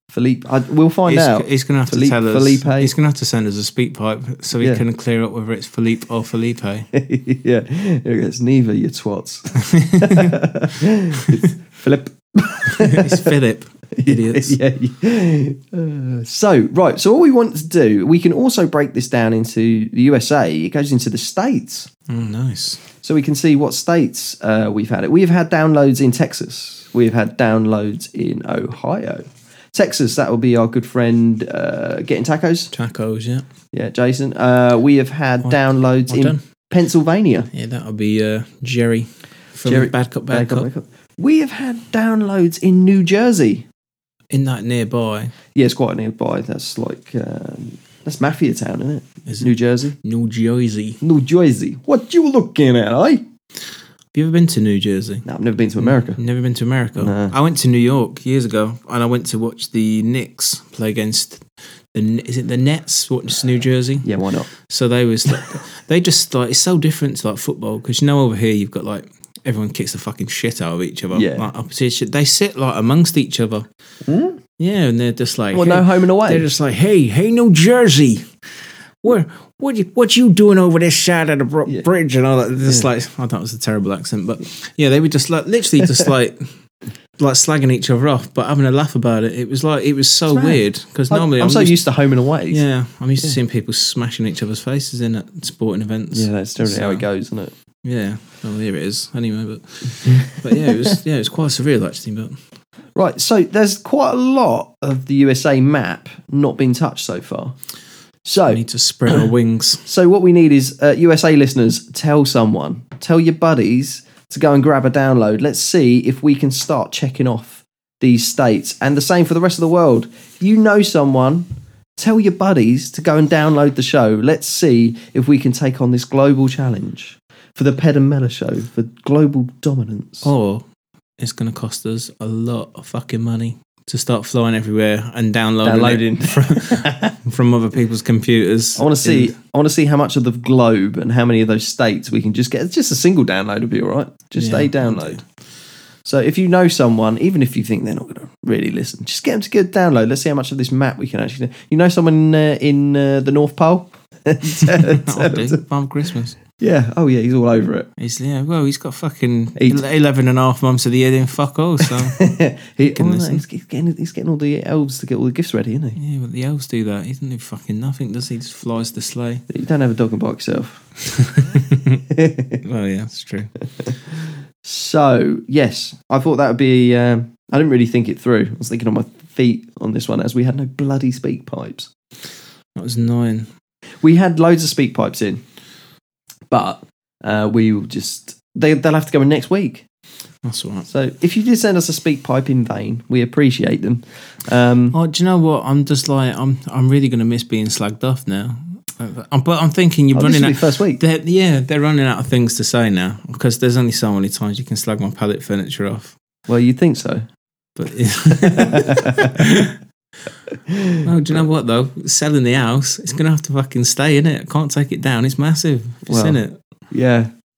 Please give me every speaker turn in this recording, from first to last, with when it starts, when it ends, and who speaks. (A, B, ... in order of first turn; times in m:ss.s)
0:00.1-0:02.9 A
0:01.1-0:06.9 B
0:06.9-0:13.3 A
0:09.7-0:10.4 B
0:12.8-0:14.6 B
0:13.9-0:21.9 A
0:22.1-0:22.8 B
0:23.0-0:32.7 A
0:32.7-0:33.4 B
0:33.7-0:37.5 A
0:36.1-0:36.4 B
0:37.5-0:40.7 B
0:39.6-0:43.6 A
0:44.3-0:45.3 B
0:45.5-0:50.0 A
0:50.0-0:51.0 B
0:51.0-0:53.2 A
0:54.1-0:55.2 B
0:55.2-0:56.2 A
0:55.8-1:04.1 B
0:57.0-0:57.3 A
1:04.0-1:04.5 A
1:04.6-1:13.7 B
1:11.1-1:11.5 A
1:14.0-1:14.4 A
1:14.6-1:18.3 B
1:15.5-1:16.5 A
1:19.0-1:26.5 B
1:27.2-1:31.8 B
1:30.3-1:32.6 A
1:32.5-1:37.0 B
1:36.1-1:37.5 A
1:37.8-1:42.4 B
1:43.0-1:47.5 A
1:48.2-1:48.6 A
1:48.5-1:49.8 B
1:49.8-2:10.3 A
2:10.2-2:10.6 B
2:11.2-2:19.3 B
2:15.6-2:17.1 A
2:18.8-2:25.2 A
2:24.4-2:25.2 B
2:26.0-2:35.6 A
2:34.6-2:36.4 B
2:36.6-2:37.9 A
2:38.0-2:42.2 B
2:39.6-2:39.8 A
2:42.1-2:46.0 A
2:42.9-2:43.4 B
2:46.0-2:49.4 B
2:49.5-2:50.9 A
2:51.2-2:52.0 B
2:52.1-2:52.6 A
2:52.6-2:53.5 B
2:54.6-3:01.9 A
3:02.7-3:03.5 B
3:04.0-3:05.4 A
3:06.5-3:09.8 A
3:10.4-3:10.9 B
3:10.9-3:15.0 A
3:14.9-3:26.1 B
3:20.1-3:21.0 A
3:26.5-3:27.2 A
3:27.8-3:29.8 B
3:28.4-3:29.4 A
3:30.7-3:31.4 A
3:31.0-3:36.6 B
3:36.1-3:37.3 A